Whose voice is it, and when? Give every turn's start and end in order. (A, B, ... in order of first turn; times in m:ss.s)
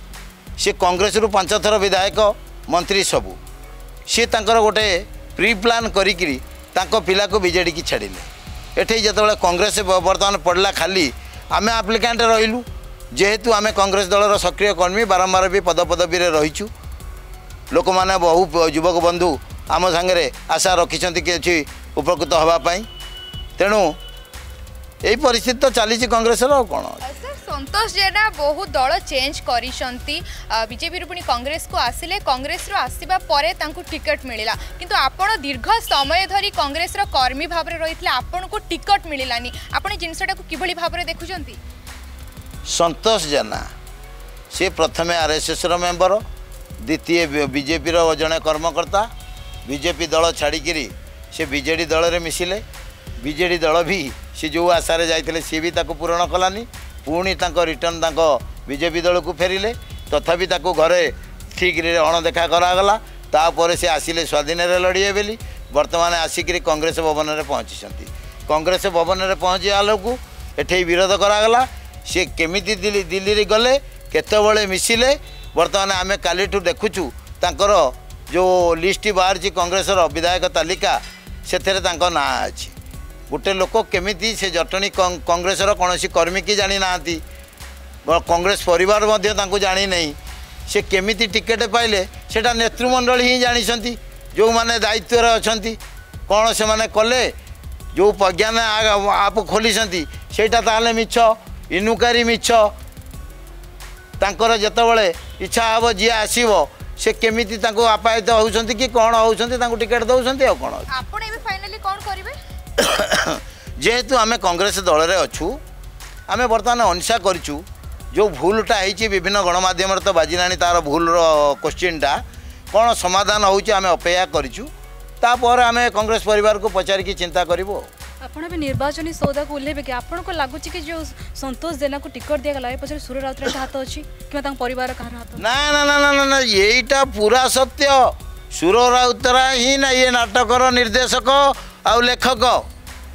0:00.6-0:03.4 A
0:04.1-0:16.7 A
0:17.7-0:22.9 A
0:23.6-0:24.0 A
0:25.0-0:27.3 A
0:27.0-0:41.6 B
0:42.7-0:43.7 A
0:44.5-0:46.2 A
0:46.8-0:49.1 A
0:49.7-0:52.6 A
0:53.2-1:22.7 A
1:23.3-1:27.2 A
1:28.1-1:30.2 A
1:30.7-1:37.3 A
1:37.9-1:42.7 A
1:44.2-1:50.9 A
1:50.9-1:52.4 B
1:52.8-1:55.6 A
1:56.3-2:04.7 A
2:05.2-2:07.9 A
2:08.2-2:15.4 C
2:15.4-2:22.7 A